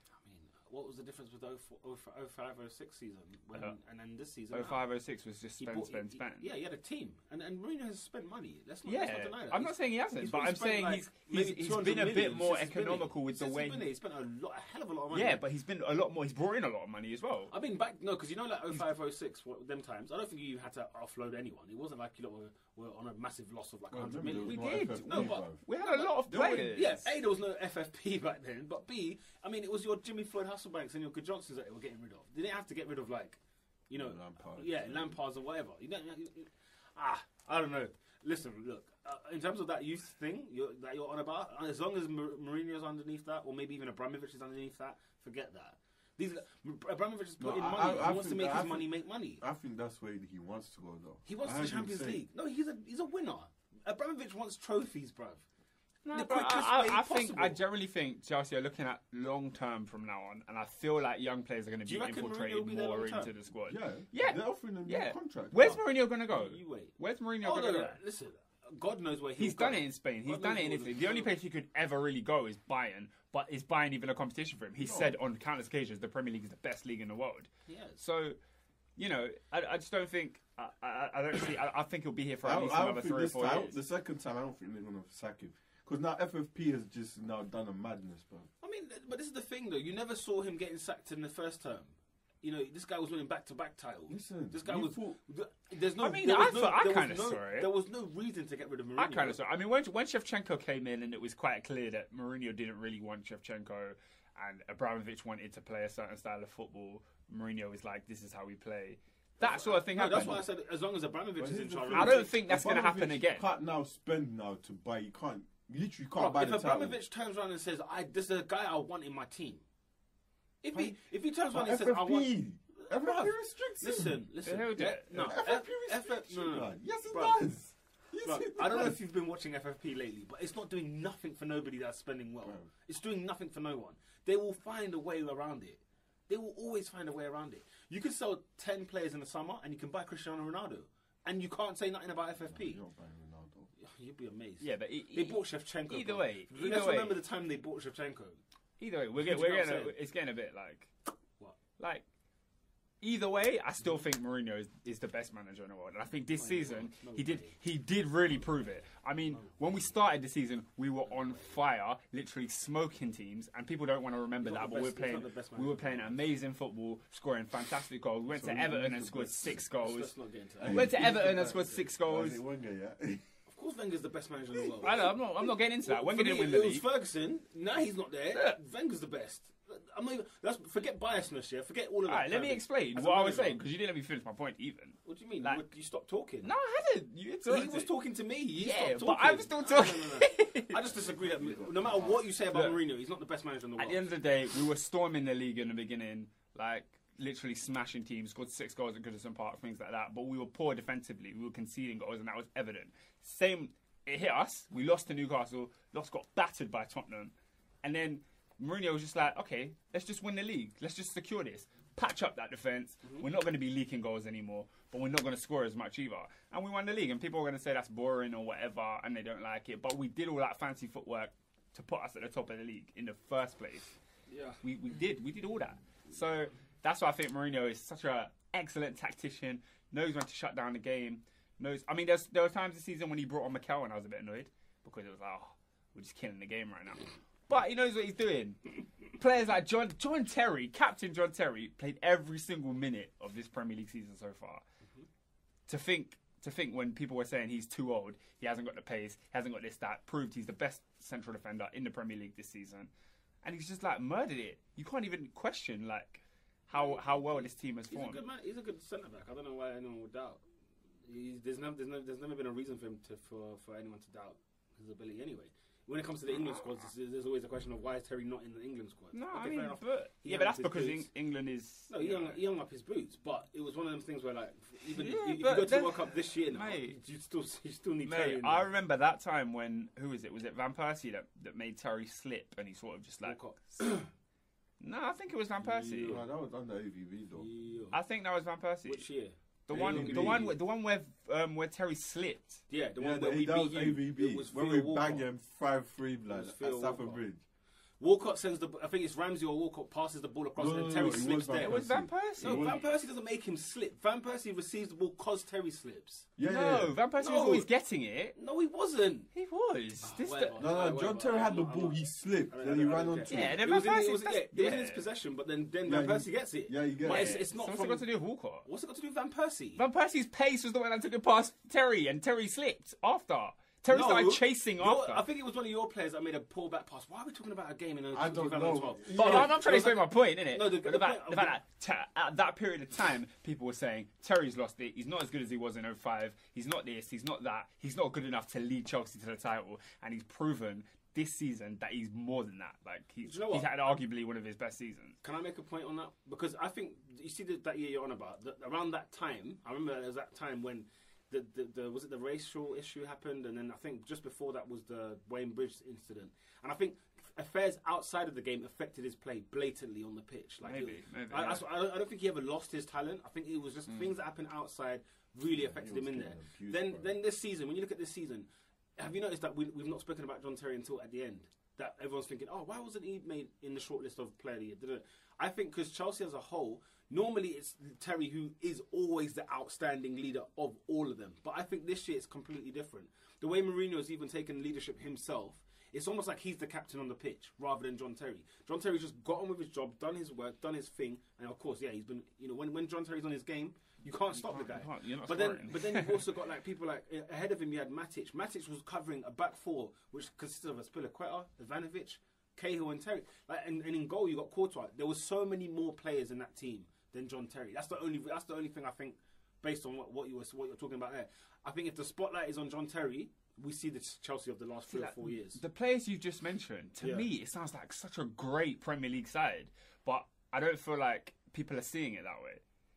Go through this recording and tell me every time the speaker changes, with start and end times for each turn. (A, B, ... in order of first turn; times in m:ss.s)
0:00.2-0:04.8 A
0:04.5-0:06.5 B
0:05.6-0:15.4 A
0:08.8-0:13.9 B
0:15.1-0:17.5 B
0:17.5-0:49.4 A
0:23.9-0:25.6 C
0:24.3-0:27.1 B
0:33.9-0:35.2 C
0:47.4-0:52.2 C
0:51.2-0:55.4 A
0:56.0-1:08.0 B
0:56.1-0:57.6 A
1:01.8-1:03.3 A
1:03.7-1:05.8 C
1:06.3-1:11.3 A
1:09.4-1:18.4 B
1:14.8-1:15.2 C
1:17.7-1:18.0 A
1:19.0-1:23.7 B
1:22.4-1:28.5 C
1:28.6-1:39.4 A
1:34.1-1:35.2 C
1:36.0-1:37.7 B
1:39.0-1:50.4 B
1:49.4-1:52.3 A
1:50.1-1:50.4 C
1:51.4-1:57.0 C
1:51.9-1:53.5 B
1:56.1-1:59.6 A
2:00.6-2:07.4 A
2:00.7-2:04.3 C
2:04.4-2:05.4 B
2:04.8-2:09.0 C
2:08.2-2:22.8 A
2:12.4-2:12.7 C
2:22.5-2:23.7 C
2:23.8-2:28.4 A
2:24.6-2:27.2 B
2:28.8-2:30.9 B
2:29.2-2:30.0 A
2:31.8-2:32.0 B
2:33.0-2:52.4 B
2:36.4-2:37.6 A
2:44.4-2:46.2 A
2:48.3-2:49.6 C
2:49.8-2:51.6 A
2:50.6-2:53.2 C
2:53.5-3:03.6 A
2:54.8-2:56.8 B
2:58.3-2:58.6 B
3:02.1-3:05.6 B
3:05.0-3:06.5 A
3:06.4-3:07.9 B
3:07.4-3:14.0 A
3:08.5-3:10.8 B
3:11.4-3:12.0 C
3:12.5-3:12.8 B
3:13.8-3:44.0 B
3:44.3-3:44.6 A
3:44.6-4:04.6 B
4:05.7-4:12.9 B
4:13.4-4:18.2 B
4:16.7-4:20.4 A
4:21.0-4:31.1 A
4:29.1-4:32.4 B
4:31.9-4:38.7 A
4:34.9-4:37.0 B
4:38.0-4:43.4 B
4:43.2-4:44.1 A
4:44.8-4:46.2 B
4:45.6-4:46.2 A
4:46.0-4:47.5 C
4:47.4-4:48.0 A
4:47.9-4:49.1 B
4:48.8-4:50.6 A
4:49.7-4:52.6 B
4:49.7-4:50.5 C
4:52.7-4:55.2 A
4:53.0-4:57.4 C
4:56.3-4:57.2 A
4:58.0-5:01.8 A
5:00.6-5:02.9 C
5:01.6-5:02.8 B
5:02.4-5:06.3 A
5:06.4-5:07.0 C
5:06.4-5:08.4 B
5:07.2-5:07.7 A
5:08.4-5:09.3 A
5:09.3-5:10.6 B
5:10.0-5:18.1 A
5:10.6-5:13.6 C
5:13.2-5:15.0 B
5:15.8-5:17.4 C
5:17.0-5:18.7 B
5:18.6-5:19.8 A
5:19.8-5:25.2 B
5:23.9-5:31.6 A
5:28.1-5:29.5 C
5:29.1-5:45.2 B
5:43.2-5:44.0 A
5:45.2-6:55.6 A
6:00.6-6:01.6 B
6:05.5-6:07.1 C
6:34.3-6:36.3 B
6:54.9-7:02.6 B
6:57.0-6:57.3 A